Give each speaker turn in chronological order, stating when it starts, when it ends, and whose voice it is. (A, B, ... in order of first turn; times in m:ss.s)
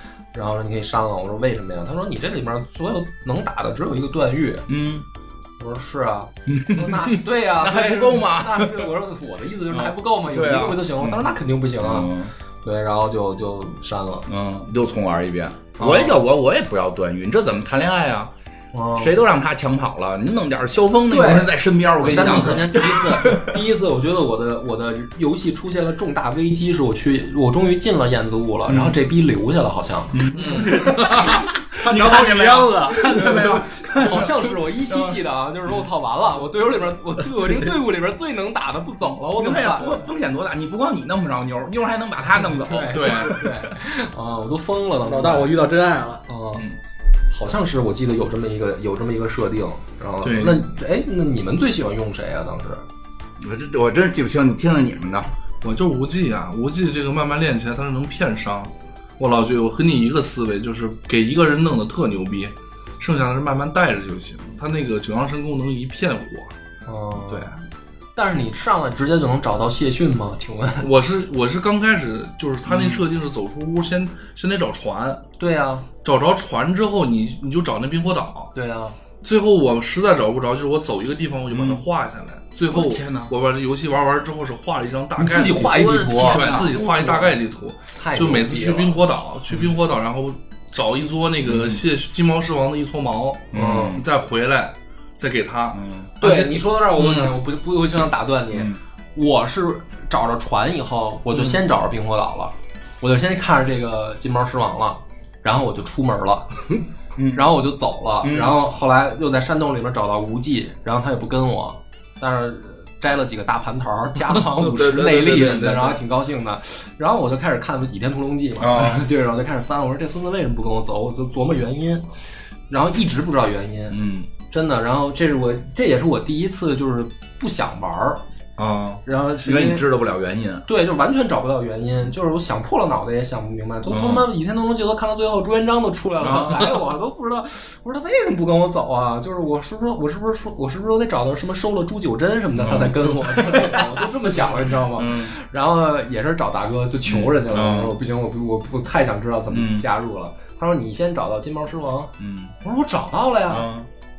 0:00.3-0:04.7 A
0:04.7-0:05.0 B
0:05.6-0:14.3 A
0:06.4-0:08.9 B
0:09.7-0:12.3 B
0:14.3-0:18.3 B
0:15.8-0:16.2 A
0:18.7-0:19.2 A
0:18.9-0:23.6 B
0:21.1-0:30.7 A
0:28.7-0:29.0 B
0:30.1-0:35.2 B
0:30.3-0:31.3 C
0:30.5-0:33.7 D
0:33.1-0:40.0 A
0:39.3-0:43.7 B
0:42.4-0:45.5 A
0:42.9-0:43.4 C
0:45.0-0:46.2 D
0:46.3-0:46.7 A
0:47.3-0:52.8 A
0:50.2-0:50.6 C
0:53.4-0:55.3 B
0:55.6-1:06.5 C
1:06.8-1:07.5 A
1:07.3-1:07.5 C
1:08.1-1:10.9 A
1:10.8-1:15.2 C
1:12.6-1:13.0 B
1:15.4-1:15.8 A
1:16.0-1:18.5 C
1:18.5-1:19.0 A
1:19.2-1:37.3 C
1:21.5-1:21.8 B
1:22.7-1:23.3 B
1:25.2-1:27.3 A
1:25.6-1:26.8 B
1:27.9-1:29.0 A
1:31.4-1:31.8 B
1:33.5-1:34.0 B
1:33.5-1:34.0 A
1:35.7-1:36.1 B
1:36.2-1:46.8 A
1:38.5-1:38.8 B
1:47.2-1:47.5 B
1:47.3-2:02.0 A
1:48.2-1:48.6 B
1:54.3-1:56.0 C
1:58.6-1:59.0 B
2:02.7-2:04.0 A
2:03.9-2:04.3 B
2:04.5-2:08.2 A
2:08.6-2:10.6 B
2:09.0-2:09.8 A
2:10.7-2:33.7 A
2:13.9-2:14.3 B
2:16.2-2:16.7 B
2:22.6-2:24.0 B
2:24.9-2:25.3 B
2:27.0-2:27.9 B
2:29.5-2:29.8 B
2:32.2-2:32.5 B
2:33.5-2:33.9 B